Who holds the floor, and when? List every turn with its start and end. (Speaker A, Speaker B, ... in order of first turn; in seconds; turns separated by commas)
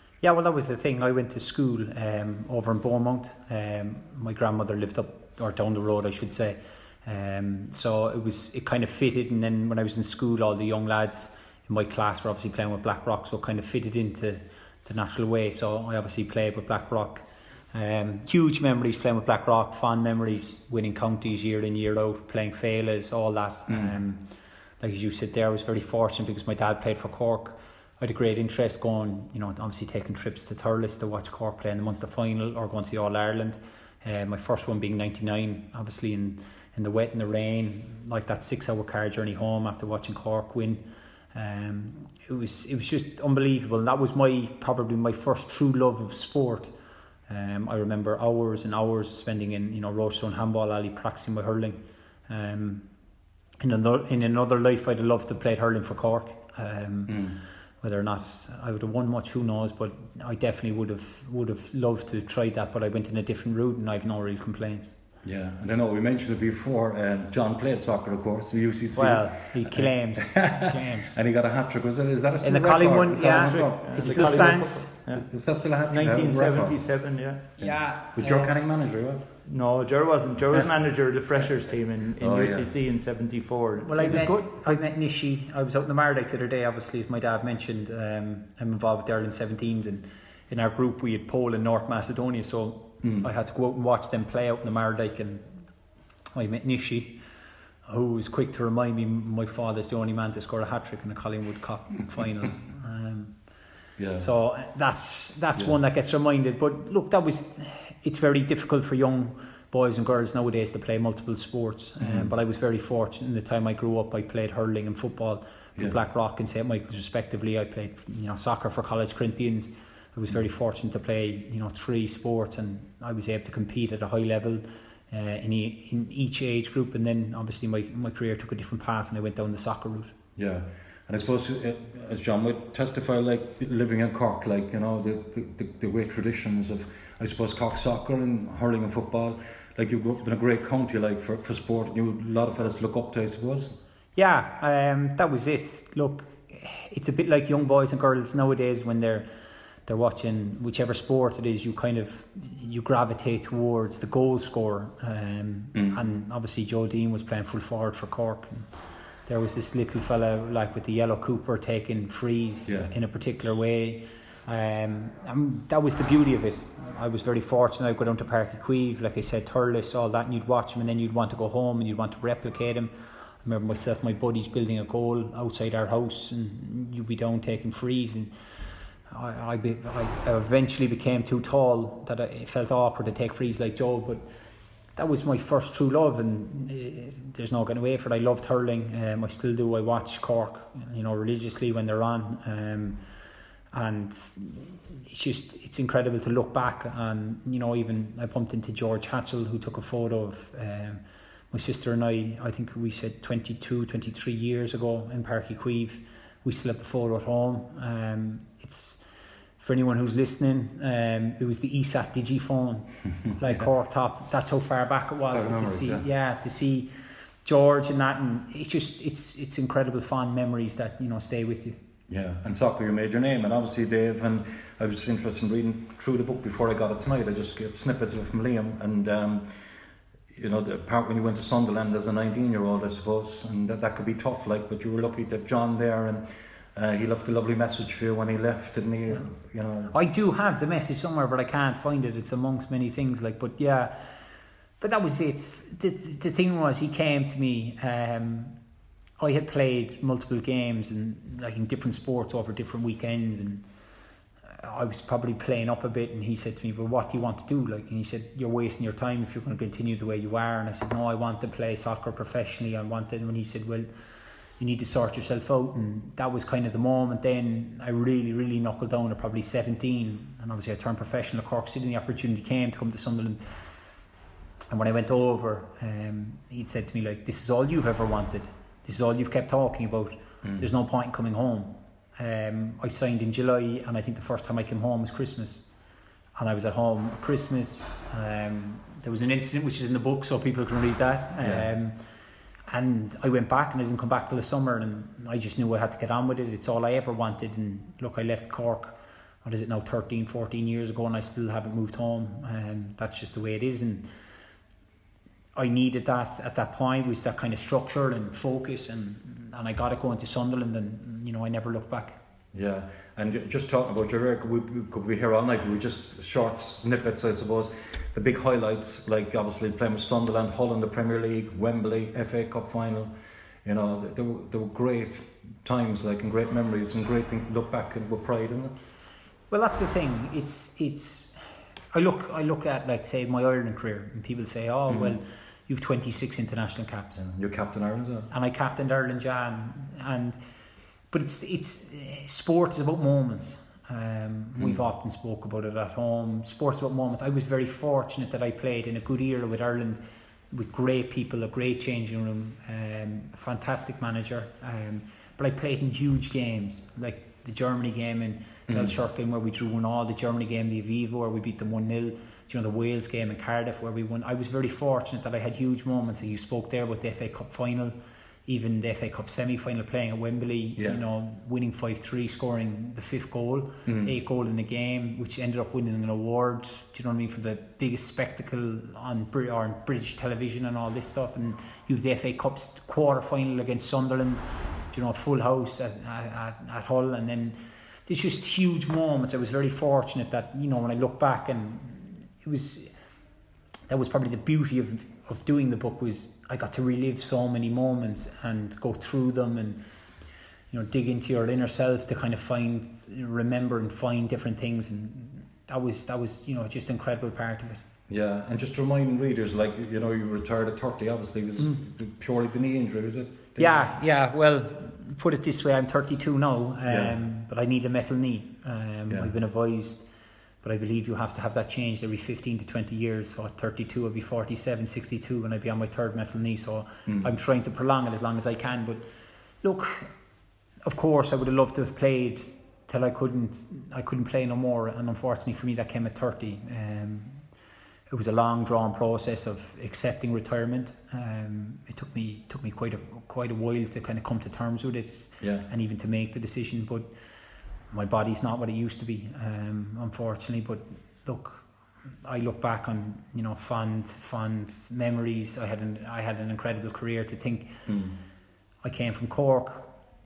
Speaker A: 0.2-46.7, Speaker B: 23.7-23.9, Speaker A: 47.3-52.9, Speaker A: 53.6-64.9, Speaker B: 57.1-57.4, Speaker B: 65.2-76.8, Speaker A: 68.9-71.2, Speaker A: 72.4-74.9, Speaker C: 73.2-75.2, Speaker C: 75.9-77.6, Speaker A: 77.6-78.5, Speaker B: 78.1-79.2, Speaker C: 79.5-84.8, Speaker B: 82.2-82.7, Speaker A: 83.8-95.7, Speaker B: 93.0-93.3, Speaker A: 96.3-97.2, Speaker A: 97.9-103.5, Speaker B: 104.0-104.3, Speaker A: 104.2-130.1, Speaker B: 112.0-112.3, Speaker B: 130.3-143.8, Speaker A: 144.1-149.2, Speaker A: 149.8-158.7, Speaker B: 155.7-156.0, Speaker A: 159.2-178.3, Speaker A: 179.1-184.3, Speaker A: 184.9-193.0, Speaker A: 193.7-209.1, Speaker A: 209.6-216.9, Speaker B: 215.3-216.0, Speaker A: 217.4-221.8, Speaker B: 222.1-229.5, Speaker B: 230.3-239.9, Speaker A: 239.9-244.2, Speaker A: 244.8-248.6, Speaker A: 249.2-253.7, Speaker A: 254.5-263.9, Speaker A: 264.6-273.4, Speaker A: 274.7-285.7, Speaker B: 280.4-280.7, Speaker A: 286.4-292.0, Speaker B: 291.4-291.7, Speaker A: 292.7-304.1, Speaker A: 305.6-312.2, Speaker B: 312.5-323.1, Speaker B: 323.6-328.7, Speaker A: 329.5-331.4, Speaker A: 331.9-337.2, Speaker B: 334.9-335.2, Speaker B: 337.1-338.3, Speaker A: 338.3-340.4, Speaker A: 341.1-392.9, Speaker B: 344.6-344.8, Speaker B: 358.7-358.9, Speaker B: 373.9-374.1, Speaker A: 393.9-399.8, Speaker A: 400.7-407.8, Speaker B: 408.1-413.9, Speaker A: 413.6-420.1, Speaker B: 416.9-417.2, Speaker A: 420.6-429.1, Speaker B: 427.1-427.3, Speaker A: 429.6-430.1, Speaker A: 430.8-437.4, Speaker A: 438.1-447.1, Speaker B: 445.4-445.7, Speaker A: 447.9-451.7, Speaker A: 452.2-457.8, Speaker B: 457.9-458.2, Speaker A: 458.8-459.9